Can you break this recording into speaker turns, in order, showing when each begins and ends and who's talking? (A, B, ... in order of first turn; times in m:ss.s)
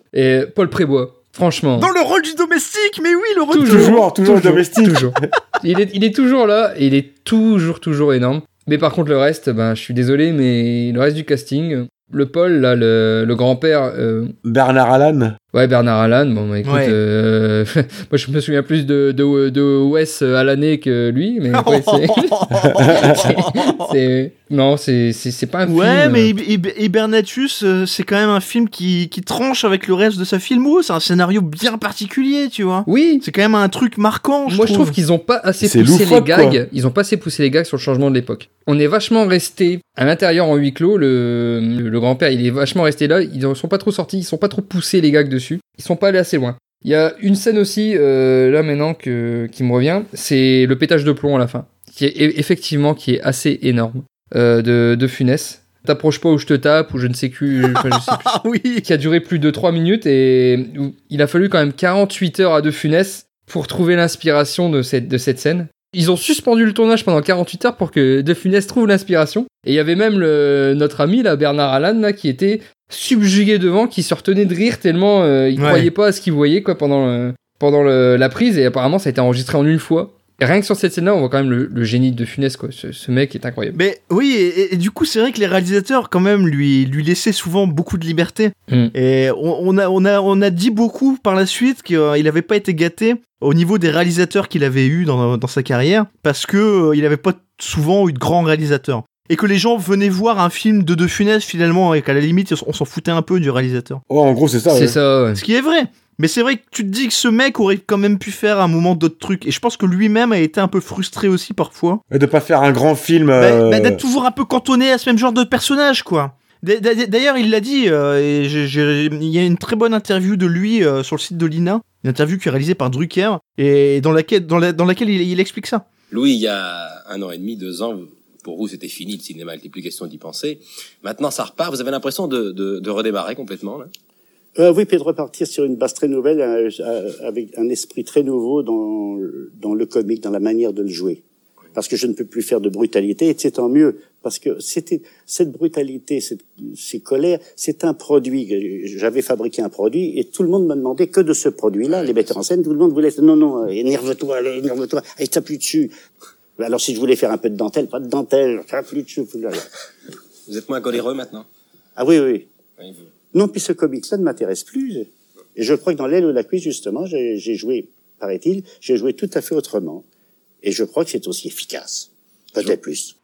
0:00.1-0:01.9 A
0:01.8-0:04.1 B
0:03.5-0:14.4 A
0:03.6-0:05.1 C
0:14.4-0:15.4 C
0:15.5-0:26.3 A
0:16.6-0:17.0 B
0:21.5-0:24.0 B
0:22.8-0:23.2 C
0:25.7-0:35.0 B
0:32.9-0:33.2 A
0:34.5-0:58.3 A
0:35.6-0:36.6 C
0:57.6-0:58.8 B
0:58.8-1:23.8 A
1:15.6-1:15.9 B
1:23.8-1:44.0 B
1:44.1-1:45.0 C
1:44.7-1:45.4 A
1:45.4-1:52.0 B
1:52.1-1:54.0 C
1:53.4-2:05.8 B
2:06.1-2:13.9 D
2:14.6-2:21.2 E
2:21.8-2:35.9 E
2:36.6-2:39.7 E
2:40.5-2:41.5 D
2:42.0-2:42.5 E
2:43.3-2:50.0 E
2:50.6-2:53.1 E